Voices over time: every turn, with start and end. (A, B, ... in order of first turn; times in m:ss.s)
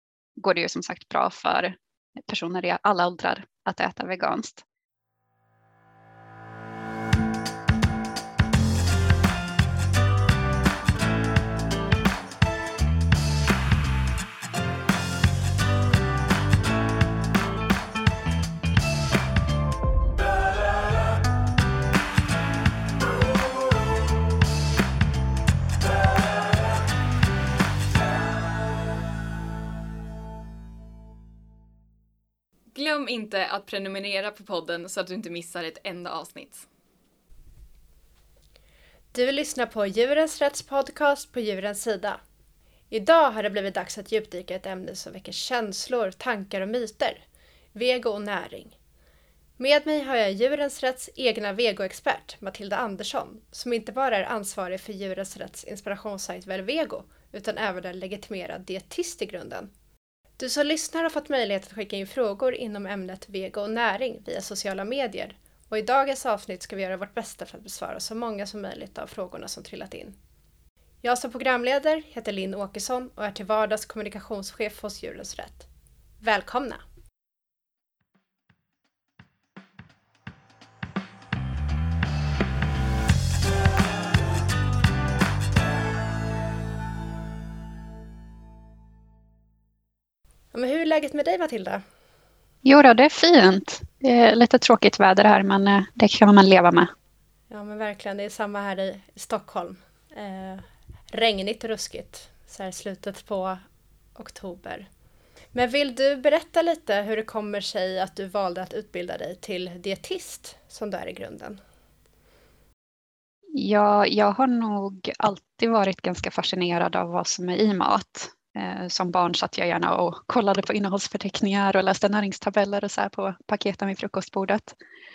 0:00.4-0:04.6 A
0:32.7-0:36.7 B
0:39.1-0:42.2 C
0:42.9-0:48.8 C
0:49.6-0:59.7 C
1:00.4-1:10.2 C
1:11.0-1:15.7 C
1:16.2-1:16.8 C
1:30.5-1:31.8 C
1:32.6-1:36.9 A
1:37.5-1:43.6 C
1:44.1-1:44.9 C
1:45.5-1:51.6 C
1:53.5-2:04.7 A